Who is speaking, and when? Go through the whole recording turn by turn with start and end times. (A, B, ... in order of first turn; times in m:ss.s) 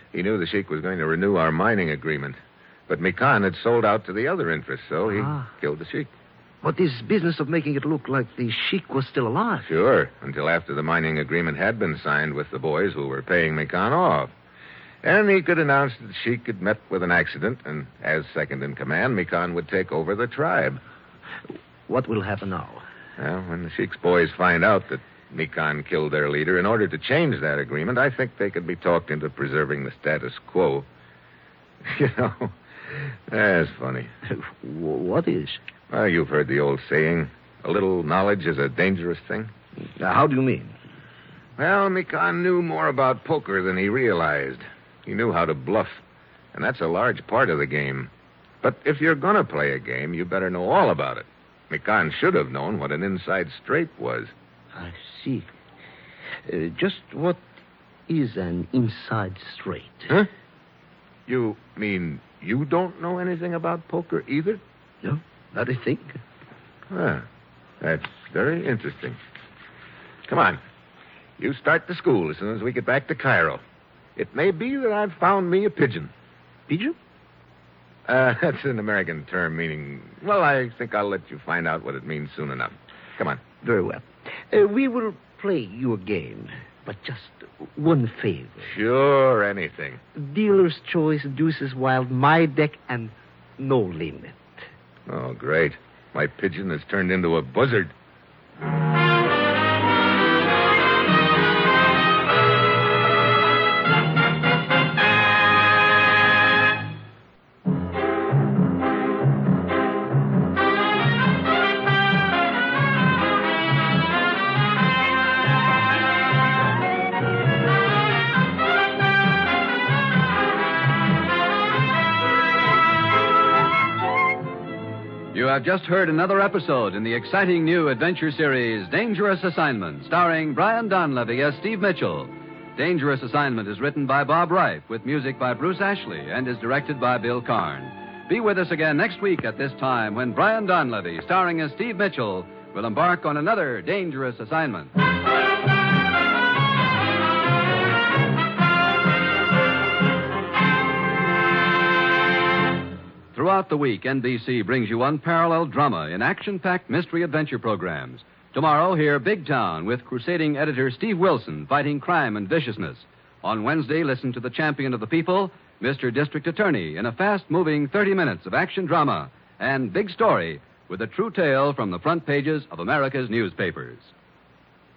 0:00.1-0:06.1 A
0:05.2-0:05.5 B
0:06.6-0:09.7 B
0:09.6-0:14.3 A
0:15.0-0:20.8 A
0:21.9-0:22.8 B
0:23.2-0:30.9 A
0:31.8-0:34.1 A
0:34.3-0:35.6 B
0:35.9-0:39.5 A
0:39.9-0:40.8 B
0:41.6-0:46.0 A
0:46.5-0:48.1 A
0:48.6-0:54.3 A
0:54.7-0:55.5 B
0:56.5-0:57.4 B
0:58.1-1:00.1 B
1:01.3-1:04.6 A
1:05.0-1:06.2 B
1:06.9-1:07.2 A
1:07.8-1:09.2 A
1:10.3-1:10.6 A
1:11.4-1:13.6 A
1:14.2-1:16.1 A
1:16.7-1:17.0 B
1:18.0-1:23.4 A
1:23.6-1:28.7 B
1:28.6-1:30.0 A
1:30.1-1:34.6 B
1:35.1-1:37.9 A
2:05.3-2:24.9 C
2:33.3-2:54.1 C